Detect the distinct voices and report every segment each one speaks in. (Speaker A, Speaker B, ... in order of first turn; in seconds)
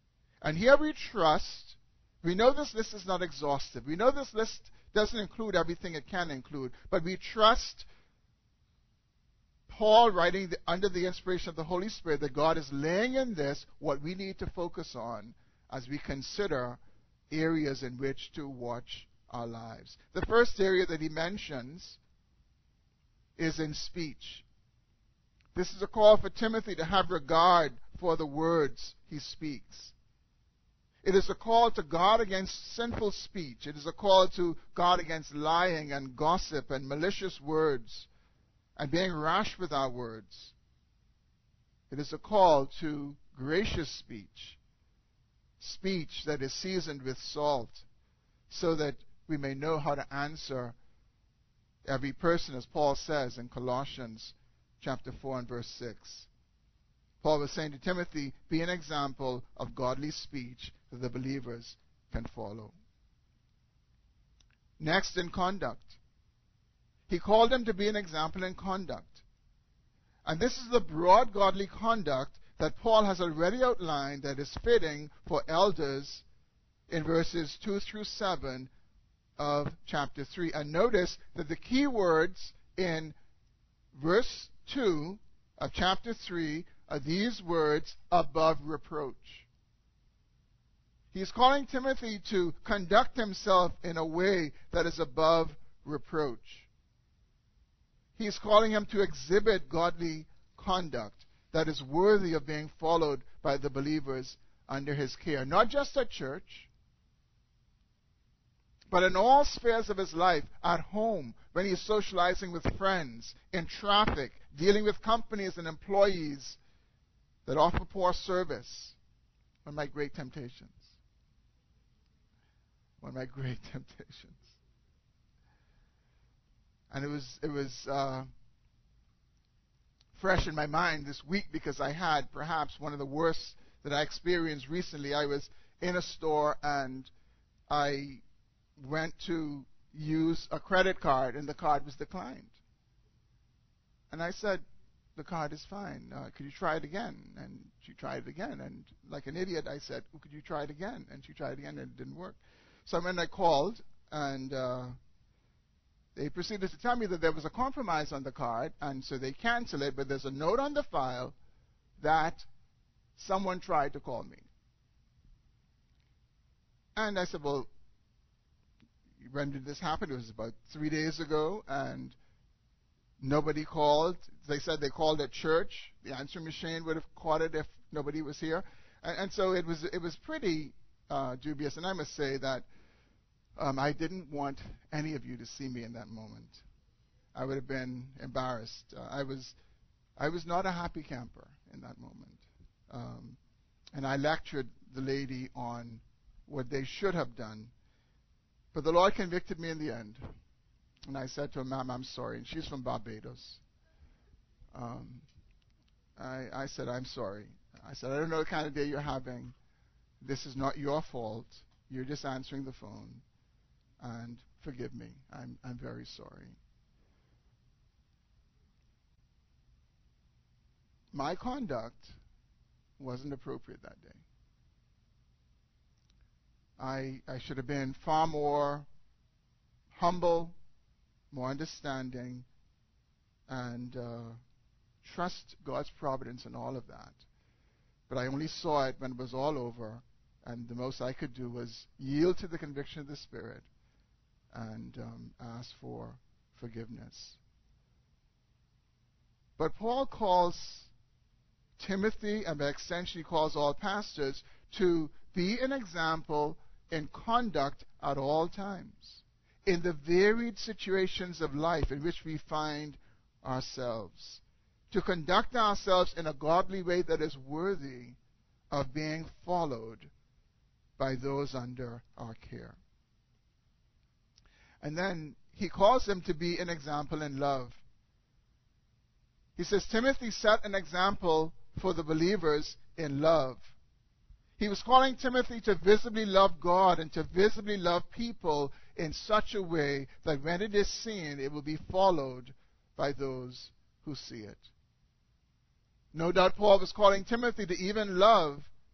Speaker A: 0.4-7.9, 9.7-22.0, 23.4-24.4, 25.5-29.9, 31.0-38.1, 38.8-40.5, 41.9-44.6, 45.6-47.8, 48.5-50.8, 51.8-56.3, 57.2-62.7, 64.8-66.0, 67.1-69.2, 70.2-76.2, 76.9-78.7, 79.4-83.2, 83.9-89.5, 91.1-96.7, 98.2-106.7, 108.9-116.6, 117.5-119.0, 119.6-120.9, 123.0-124.5, 126.9-128.3, 130.1-137.1, 137.7-138.2, 138.8-142.5, 144.1-144.6, 145.2-154.9, 156.1-161.3, 162.0-162.5, 163.2-164.5, 166.9-167.7, 169.2-172.2, 173.2-182.7, 183.6-186.6, 187.3-189.6, 190.2-193.4, 193.9-197.7, 198.7-200.3, 201.1-203.6, 204.7-205.2, 206.2-209.5, 210.2-213.2, 214.0-216.6, 221.1-222.2, 223.0-224.2, 226.8-228.9, 229.9-230.6, 231.3-232.4, 233.5-234.4, 235.0-237.2, 238.1-243.7, 244.5-247.4, 249.6-250.9, 251.8-268.2, 268.7-270.1, 271.0-272.8, 274.8-277.8, 279.6-283.7, 284.6-294.7, 296.1-298.7